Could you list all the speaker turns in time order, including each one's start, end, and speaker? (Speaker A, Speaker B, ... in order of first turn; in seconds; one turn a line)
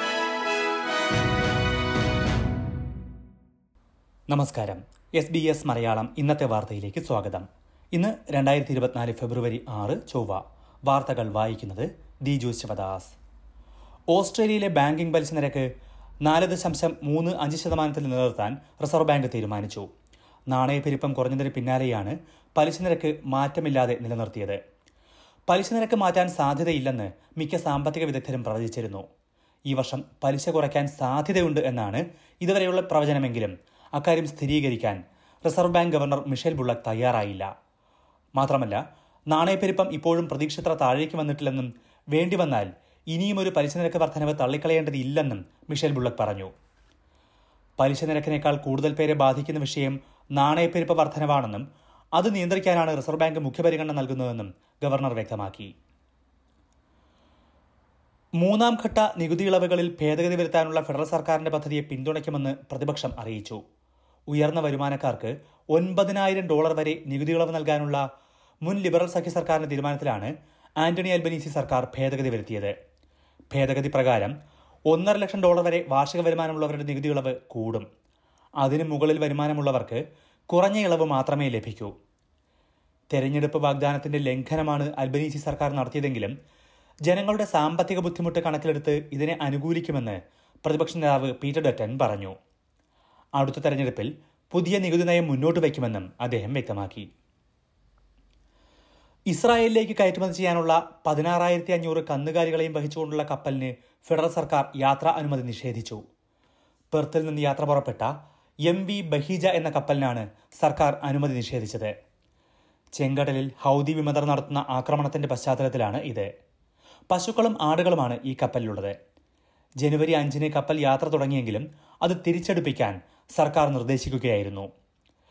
Speaker A: 4.3-13.1
Speaker A: 14.1-15.7
Speaker A: 16.2-19.9
Speaker A: 20.5-24.6
Speaker A: 25.5-29.0
Speaker A: 29.7-37.5
Speaker A: 38.4-46.5
Speaker A: 47.8-51.6
Speaker A: 52.1-55.7
Speaker A: 58.4-63.6
Speaker A: 64.3-68.0
Speaker A: 68.6-72.7
Speaker A: 73.5-74.3
Speaker A: 74.9-77.8
Speaker A: 78.6-81.9
Speaker A: 83.1-86.3
Speaker A: 87.1-92.3
Speaker A: 93.4-97.0
Speaker A: 99.3-106.0
Speaker A: 106.9-108.1
Speaker A: 108.7-111.9
Speaker A: 113.0-116.3
Speaker A: 117.1-118.9
Speaker A: 119.8-124.7